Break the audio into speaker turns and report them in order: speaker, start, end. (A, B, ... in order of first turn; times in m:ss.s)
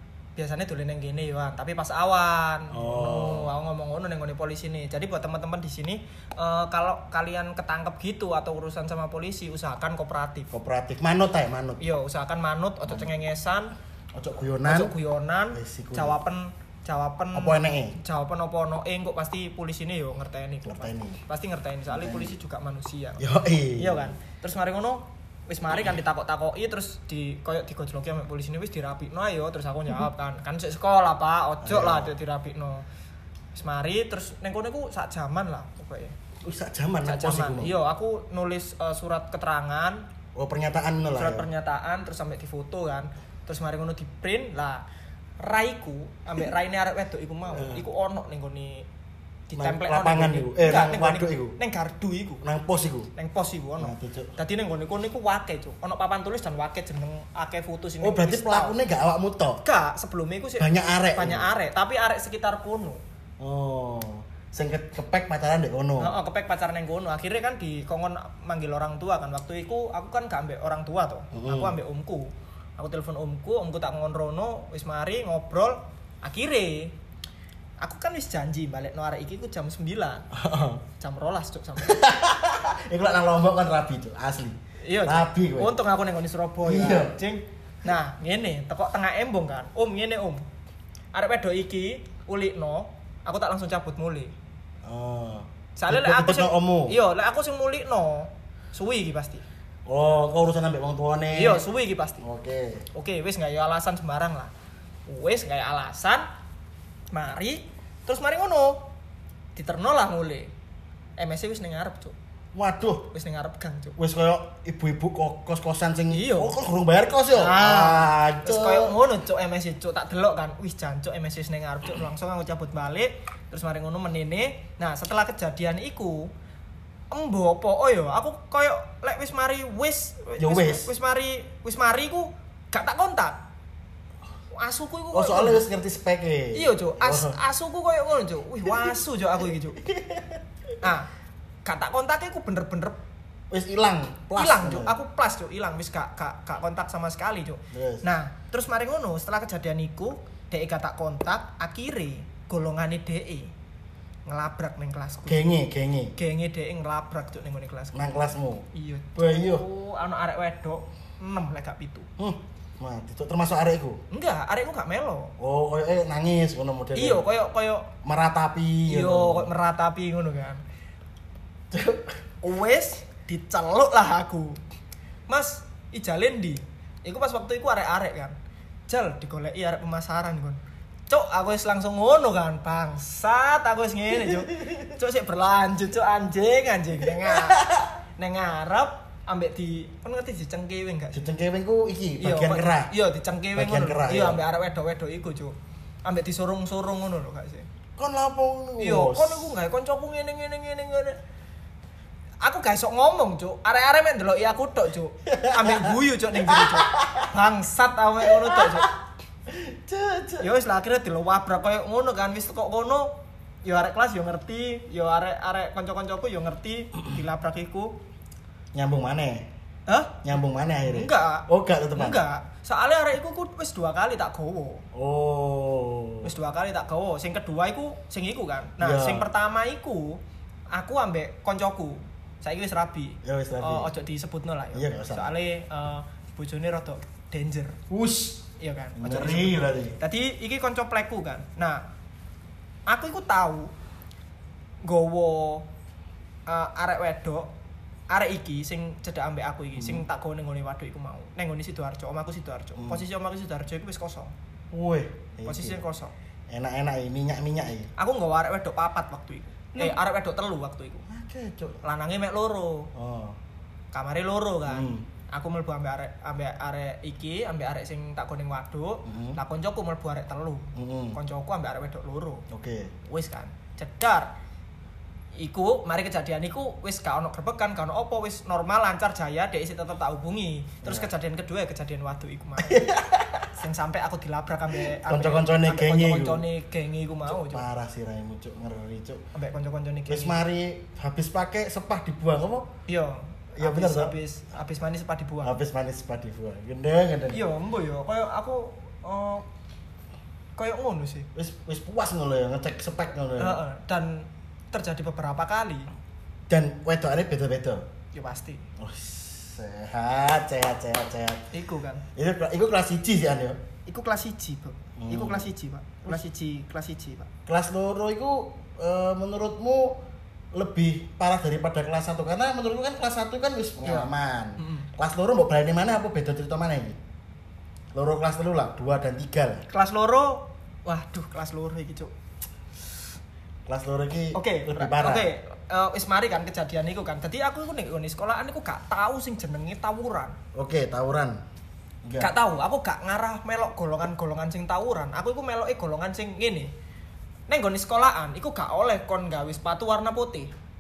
0:00.4-0:10.5 A
0:02.7-0:03.5 B
0:10.5-0:11.8 B
0:11.8-0:13.7 A
0:12.9-0:13.2 B
0:14.1-0:14.9 B
0:14.6-0:23.3 A
0:15.5-0:16.2 B
0:17.3-0:18.0 B
0:20.6-0:21.2 B
0:21.9-0:22.4 B
0:23.2-0:24.1 B
0:23.8-0:32.8 A
0:31.6-0:32.1 B
0:33.6-0:36.2 A
0:36.4-0:37.8 B
0:37.0-0:40.1 A
0:40.4-0:41.5 B
0:41.1-0:44.8 A
0:45.4-0:48.9 A
0:47.5-0:47.8 B
0:49.5-0:52.4 A
0:49.6-0:51.6 B
0:52.4-0:53.1 B
0:53.2-0:58.8 A
0:53.8-0:54.3 B
0:58.0-0:59.6 B
0:59.6-1:03.0 A
1:00.6-1:01.5 B
1:03.4-1:06.1 B
1:06.0-1:16.9 A
1:11.3-1:11.8 B
1:17.8-1:20.3 A
1:20.3-1:20.8 B
1:21.0-1:22.0 A
1:21.8-1:25.8 B
1:24.8-1:30.4 A
1:26.6-1:27.2 B
1:31.1-1:34.3 A
1:34.8-1:37.0 B
1:35.8-1:39.4 A
1:39.9-1:41.6 B
1:41.3-1:42.2 A
1:42.2-1:42.9 B
1:42.9-1:44.5 A
1:45.1-1:46.3 A
1:47.1-1:48.9 A
1:49.6-1:50.5 A
1:51.2-1:52.2 A
1:52.5-1:53.1 B
1:53.1-1:54.0 A
1:54.0-1:59.0 B
1:56.1-1:56.5 A
1:57.3-2:06.3 A
2:07.1-2:13.4 A
2:10.4-2:10.9 B
2:14.5-2:15.6 A
2:15.1-2:17.4 B
2:16.5-2:19.8 A
2:18.6-2:19.0 B
2:19.8-2:20.8 B
2:20.8-2:21.1 A
2:21.6-2:23.0 A
2:23.5-2:25.0 B
2:24.4-2:33.5 A
2:27.7-2:28.0 B
2:34.3-2:35.4 A
2:35.3-2:36.1 B
2:36.2-2:42.1 A
2:37.9-2:38.6 B
2:39.2-2:39.6 B
2:42.2-2:44.0 B
2:44.1-2:45.3 A
2:45.4-2:47.3 B
2:46.9-2:47.9 A
2:48.0-2:49.5 B
2:48.9-2:50.6 A
2:51.7-2:52.2 B
2:52.4-2:54.6 A
2:55.3-2:58.4 A
2:58.9-3:11.2 A
3:04.2-3:04.9 B
3:07.1-3:07.9 B
3:11.1-3:12.9 B
3:12.2-3:17.7 A
3:13.6-3:14.4 B
3:18.0-3:19.5 B
3:18.8-3:21.2 A
3:22.4-3:28.9 A
3:25.3-3:27.3 B
3:28.2-3:29.0 B
3:29.5-3:30.5 B
3:30.4-3:33.1 A
3:33.6-3:38.0 A
3:38.7-3:39.5 B
3:39.9-3:40.3 A
3:40.2-3:42.2 B
3:40.8-3:44.9 A
3:44.9-3:46.3 B
3:46.2-3:50.2 A
3:48.8-3:49.3 B
3:50.7-3:57.8 A
3:53.2-3:53.9 B
3:54.7-3:55.3 B
3:57.9-4:00.0 B
3:58.6-4:01.8 A
4:02.9-4:03.7 A
4:04.8-4:05.7 A
4:06.5-4:07.5 A
4:08.1-4:14.3 A
4:09.8-4:10.0 B
4:12.8-4:13.0 B
4:14.7-4:15.8 B
4:15.4-4:16.1 A
4:16.5-4:17.9 B
4:18.0-4:21.1 A
4:19.7-4:20.0 B
4:21.1-4:21.8 B
4:21.8-4:22.9 A
4:22.9-4:23.4 B
4:23.9-4:32.4 A
4:24.7-4:25.1 B
4:29.1-4:29.4 B
4:30.8-4:31.2 B
4:32.5-4:32.9 B
4:33.1-4:34.3 A
4:35.4-4:42.9 A
4:40.8-4:41.1 B
4:42.6-4:43.6 B
4:43.6-4:47.7 A
4:44.7-4:46.4 B
4:47.3-4:49.2 B
4:49.4-4:50.4 A
4:50.1-4:52.7 B
4:52.9-4:55.5 A
4:53.6-4:54.2 B
4:55.4-4:57.4 B
4:57.3-4:59.5 A
5:00.6-5:01.3 A
5:01.4-5:03.6 B
5:03.4-5:05.9 A
5:06.5-5:07.9 B
5:08.1-5:08.7 A
5:08.8-5:11.4 B
5:11.5-5:12.0 A
5:12.2-5:13.6 B
5:13.9-5:17.3 A
5:15.0-5:15.5 B
5:17.5-5:20.0 B
5:20.5-5:27.0 B
5:23.8-5:24.9 A
5:27.9-5:29.7 B
5:29.7-5:32.1 A
5:33.7-5:35.3 B
5:34.3-5:40.4 A
5:40.5-5:41.4 B
5:42.0-5:42.3 B
5:42.2-5:46.7 A
5:47.5-5:50.5 A